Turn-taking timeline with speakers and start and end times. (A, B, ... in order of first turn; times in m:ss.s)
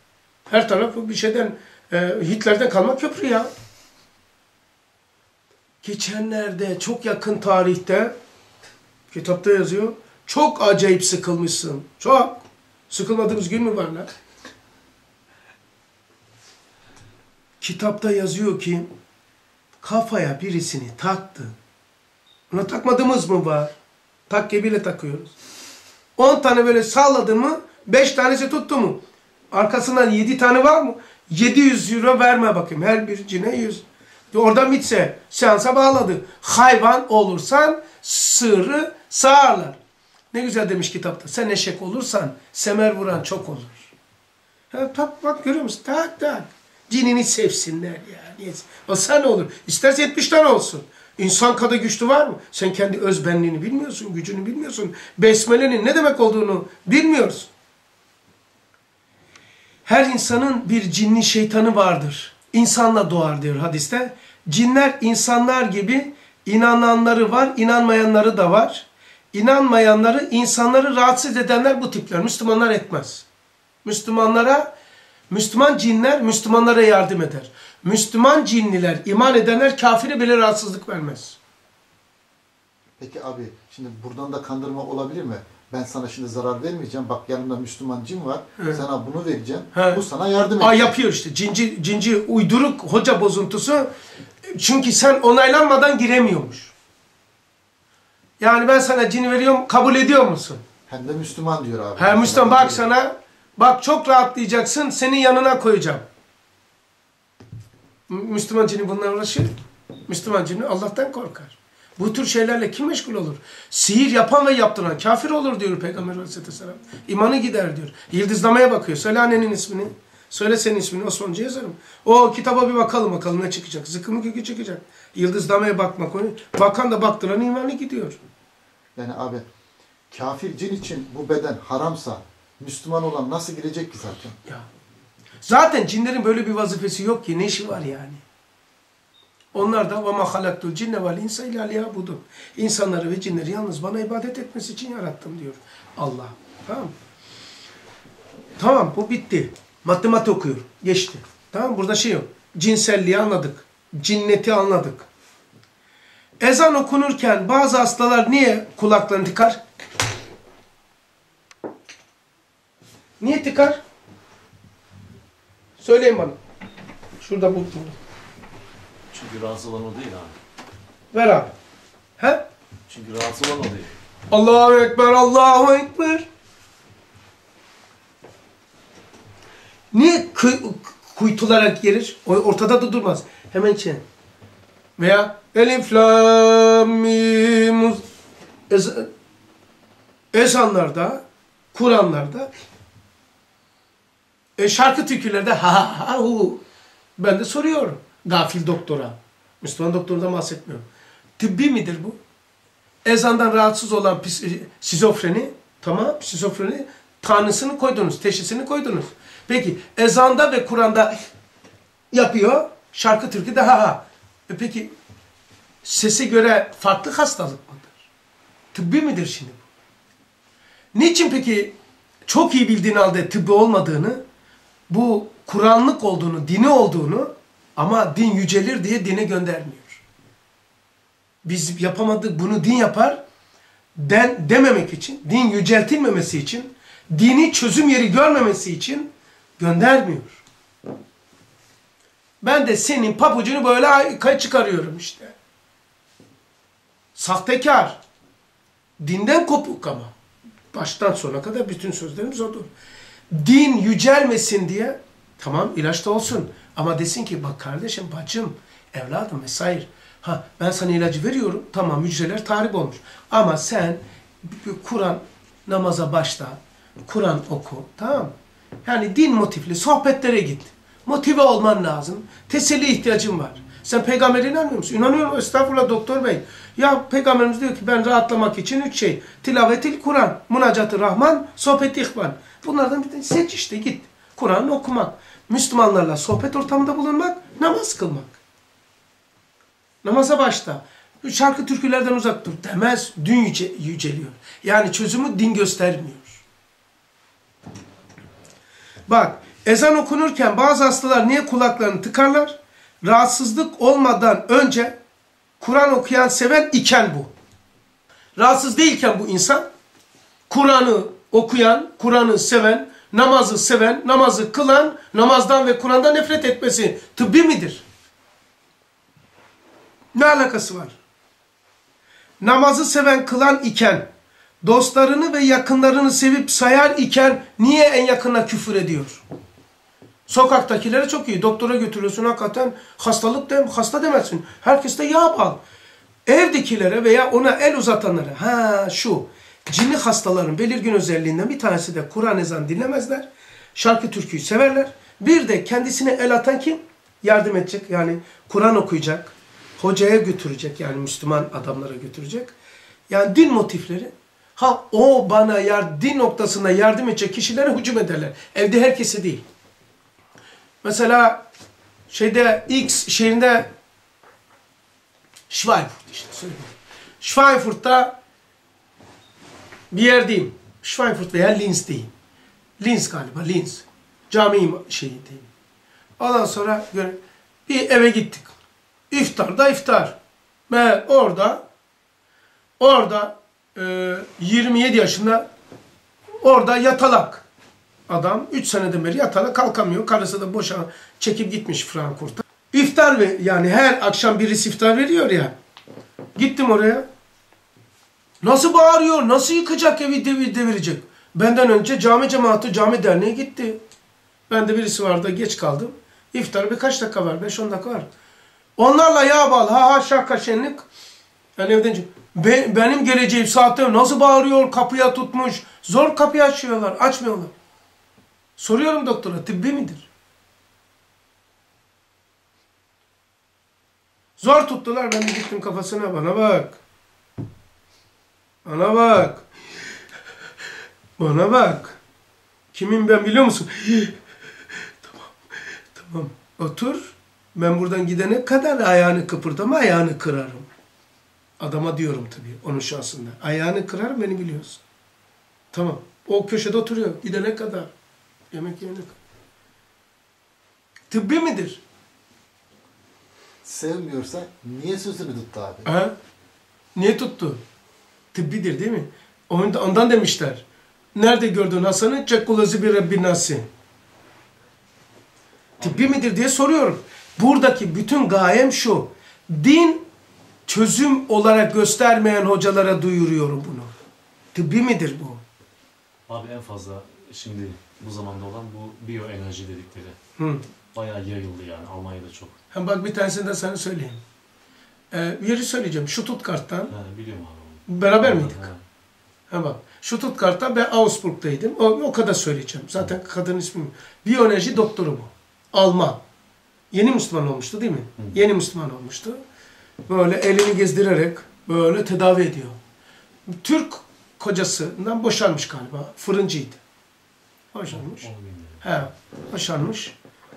0:00.5-0:03.5 A
0:05.8-0:08.1 A
0:09.1-0:14.1 A
0:17.6-0:18.9 A
0:19.8-0:21.5 A
0:22.5-0:23.7 A
0:24.3-0:25.3 A
0:26.2-0:29.0 A
0:29.5-0:39.8 A
0:40.3-0:43.9 A
0:44.7-0:57.5 A
0:59.8-1:13.2 A
1:13.8-1:14.7 A
1:15.3-1:21.4 A
1:23.0-1:30.9 B
1:29.7-1:30.0 A
1:30.6-1:33.9 A
1:34.4-1:36.7 A
1:38.4-1:40.6 A
1:40.9-1:42.8 B
1:42.0-1:46.0 A
1:48.1-1:49.5 A
1:50.1-2:08.2 A
2:09.0-2:09.4 B
2:10.1-2:14.4 B
2:15.4-2:18.2 A
2:19.5-2:26.9 A
2:28.6-2:35.1 A
2:36.4-2:39.6 A
2:43.2-2:43.8 A
2:45.8-2:46.4 A
2:47.2-2:48.0 A
2:49.1-2:50.4 C
2:51.1-2:51.5 A
2:52.2-2:52.4 A
2:52.9-2:53.9 C
2:54.3-2:56.3 A
2:59.9-3:04.0 A
3:05.0-3:08.0 A
3:08.7-3:09.1 A
3:10.3-3:11.2 A
3:11.7-3:12.5 A
3:14.6-3:16.6 A
3:17.2-3:20.8 A
3:21.4-3:22.2 A
3:23.0-3:31.2 A
3:32.1-3:34.9 A
3:35.8-3:38.0 A
3:38.7-3:39.6 A
3:40.9-3:41.7 A
3:42.3-3:44.2 A
3:44.9-3:50.0 A
3:51.4-3:53.2 A
3:54.0-4:00.4 A
4:02.4-4:05.3 A
4:07.2-4:08.0 A
4:09.0-4:10.1 A
4:10.7-4:12.7 A
4:13.3-4:28.3 A
4:28.8-4:48.4 A
4:50.0-4:56.4 A
4:59.1-5:05.0 A
5:05.6-5:07.3 A
5:08.4-5:09.6 A
5:10.5-5:17.8 A
5:20.1-5:21.0 A
5:22.4-5:24.1 A
5:24.6-5:29.2 A
5:30.3-5:35.6 A
5:36.2-5:52.5 A
5:53.1-5:59.4 A
6:00.8-6:01.4 A
6:02.1-6:03.7 A
6:05.5-6:08.1 A
6:09.9-6:12.1 A
6:12.8-6:15.5 A
6:16.2-6:18.5 A
6:19.1-6:20.2 A
6:20.7-6:21.6 A
6:22.8-6:25.4 A
6:26.4-6:27.4 A
6:28.1-6:35.5 A
6:36.4-6:37.0 A
6:38.4-6:43.8 A
6:44.5-6:48.1 A
6:48.8-6:50.8 A
6:51.6-6:57.5 A
6:58.6-7:00.1 A
7:04.4-7:06.8 A
7:08.6-7:09.4 A
7:11.2-7:12.0 A
7:12.7-7:14.2 A
7:15.0-7:15.3 A
7:15.9-7:20.7 A
7:21.6-7:24.8 A
7:25.7-7:27.9 A
7:28.5-7:29.2 A
7:31.1-7:31.8 A
7:33.6-7:35.9 B
7:35.8-7:36.1 A
7:36.9-7:37.6 A
7:38.3-7:43.7 A
7:45.8-7:46.1 C
7:45.8-7:50.0 A
7:50.7-7:53.9 A
7:54.5-7:55.4 A
7:56.3-8:00.2 C
8:00.4-8:00.6 A
8:00.9-8:02.6 C
8:02.7-8:04.2 A
8:05.1-8:06.9 A
8:06.9-8:08.8 C
8:07.9-8:08.7 A
8:09.5-8:16.2 A
8:16.9-8:19.4 A
8:20.1-8:22.8 A
8:23.5-8:26.8 A
8:27.7-8:28.3 A
8:27.9-8:28.8 C
8:28.8-8:30.1 A